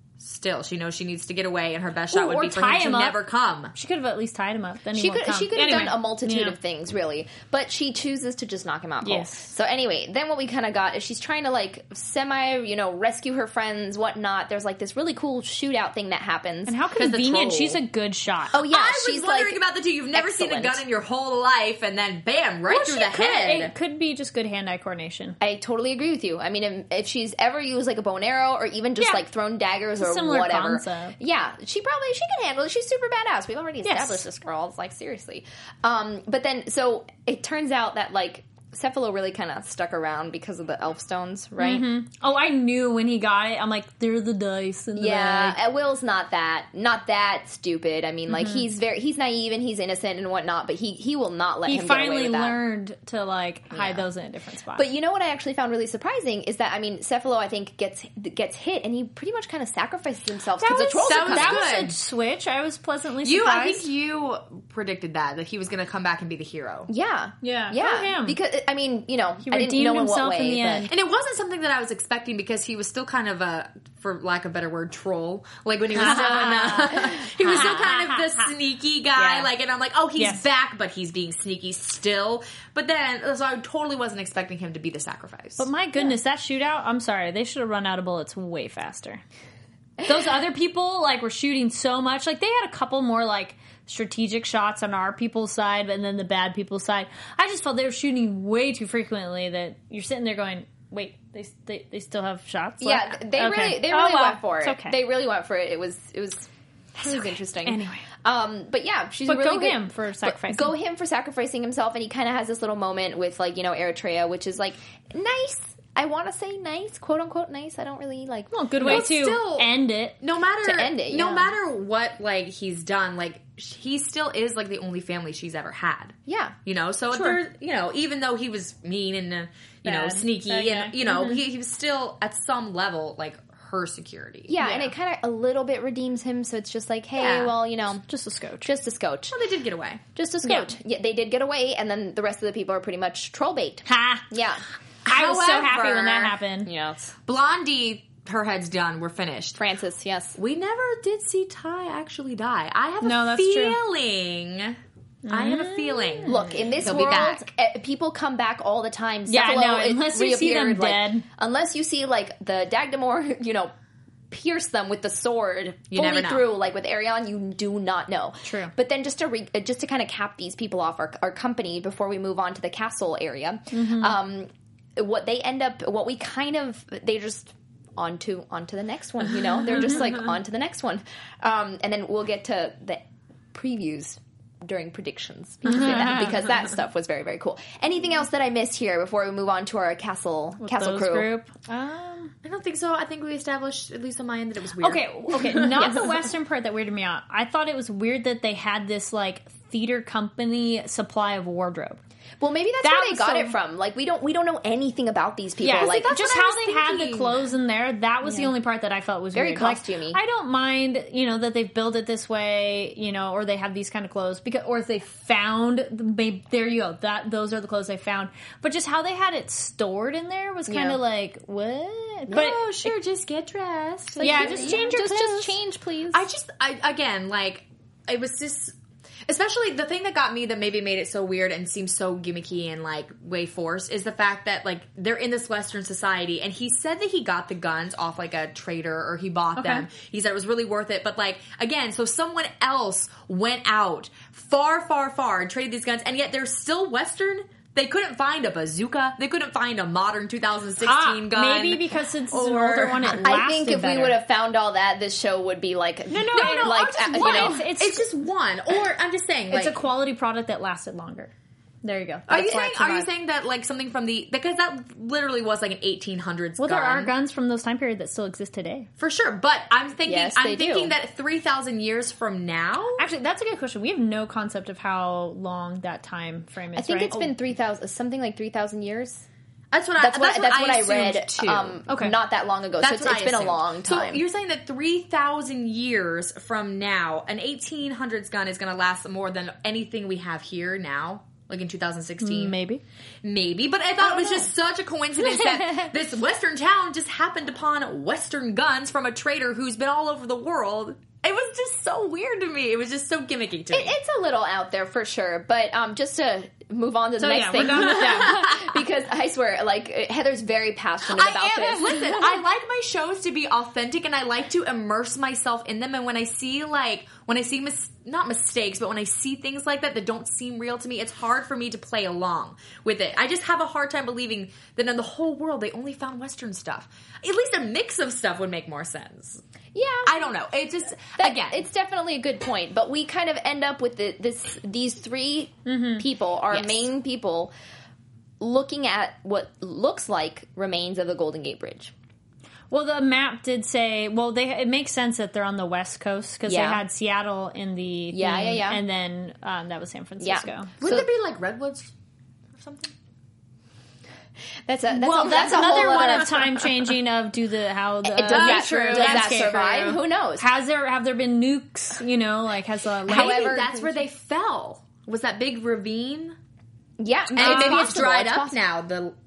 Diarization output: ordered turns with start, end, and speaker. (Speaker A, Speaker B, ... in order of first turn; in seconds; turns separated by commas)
Speaker A: 0.2-3.7, Speaker B: 2.1-3.2, Speaker B: 3.7-6.6, Speaker C: 4.9-16.8, Speaker B: 9.0-9.5, Speaker B: 16.7-18.6, Speaker A: 17.0-17.8, Speaker C: 18.5-19.6, Speaker A: 18.6-23.7, Speaker C: 20.1-20.8, Speaker B: 22.7-25.4, Speaker C: 25.4-41.9, Speaker B: 30.0-31.2, Speaker B: 33.8-34.3, Speaker B: 41.6-45.6, Speaker C: 45.0-52.6, Speaker B: 48.3-48.6, Speaker B: 51.6-54.9, Speaker C: 53.7-54.0, Speaker C: 54.8-61.7, Speaker B: 60.6-63.9, Speaker A: 61.0-61.9, Speaker A: 63.2-66.9, Speaker C: 66.9-70.9, Speaker B: 67.4-68.4, Speaker B: 69.4-70.9, Speaker A: 70.9-85.7, Speaker B: 76.0-78.5, Speaker B: 80.2-80.4, Speaker B: 85.6-89.2, Speaker B: 90.0-105.0, Speaker C: 102.8-119.1, Speaker B: 107.0-108.1, Speaker B: 109.3-110.8, Speaker B: 118.5-120.2, Speaker A: 118.8-134.6, Speaker C: 120.6-121.5, Speaker C: 126.3-126.5, Speaker B: 127.1-127.4, Speaker B: 129.8-131.4, Speaker C: 134.5-138.1, Speaker B: 134.6-134.9, Speaker A: 137.2-137.5, Speaker B: 138.1-138.7, Speaker C: 138.6-139.4, Speaker A: 139.3-140.0, Speaker B: 140.2-140.7, Speaker C: 140.4-144.6, Speaker B: 143.9-144.3, Speaker A: 145.1-146.3, Speaker B: 145.1-146.7, Speaker C: 146.7-147.1, Speaker A: 147.3-149.6, Speaker C: 149.6-150.4, Speaker A: 150.4-154.8, Speaker B: 153.0-153.8, Speaker B: 155.2-156.9, Speaker A: 155.3-157.4, Speaker C: 156.3-163.7, Speaker B: 159.3-161.2, Speaker C: 164.3-191.3, Speaker A: 165.9-166.5, Speaker B: 168.4-168.7, Speaker B: 173.7-174.2, Speaker B: 185.7-186.3, Speaker B: 190.6-192.3, Speaker A: 192.4-196.0, Speaker B: 194.8-202.0, Speaker C: 202.4-206.1, Speaker B: 202.8-203.6, Speaker B: 205.6-222.9, Speaker A: 205.7-207.4, Speaker C: 208.2-208.5, Speaker C: 209.3-210.2, Speaker C: 220.7-221.0, Speaker A: 222.3-224.8, Speaker C: 224.2-226.2, Speaker B: 224.2-225.6, Speaker A: 226.1-228.8, Speaker A: 229.3-253.2, Speaker B: 239.6-239.9, Speaker B: 250.8-254.2, Speaker C: 253.2-257.6, Speaker B: 256.1-258.1, Speaker A: 256.4-259.8, Speaker B: 259.5-261.3, Speaker B: 261.8-263.1, Speaker A: 262.3-267.1, Speaker B: 266.6-268.9, Speaker A: 269.0-273.1, Speaker C: 270.1-270.9, Speaker B: 273.0-277.3, Speaker C: 276.8-279.2, Speaker A: 279.7-281.8, Speaker C: 280.0-284.2, Speaker B: 281.9-282.1, Speaker A: 282.8-292.6, Speaker B: 292.2-292.8, Speaker A: 293.2-304.0, Speaker C: 294.1-294.4, Speaker C: 303.7-312.2, Speaker B: 307.2-308.5, Speaker A: 307.7-308.7, Speaker A: 311.1-329.4, Speaker C: 329.7-330.3, Speaker A: 330.0-331.7, Speaker C: 331.2-337.5, Speaker B: 335.7-336.1, Speaker A: 336.5-336.9, Speaker C: 338.4-341.9, Speaker B: 342.7-350.7, Speaker C: 346.5-346.8, Speaker C: 348.1-348.8, Speaker C: 350.2-351.1, Speaker A: 350.8-351.9, Speaker A: 352.5-352.9, Speaker C: 354.7-356.5, Speaker B: 354.9-363.5, Speaker A: 355.3-356.4, Speaker C: 358.1-360.5, Speaker A: 358.3-360.0, Speaker C: 363.1-363.9, Speaker A: 363.1-366.4, Speaker C: 367.0-368.6, Speaker A: 367.4-369.2, Speaker B: 367.4-367.9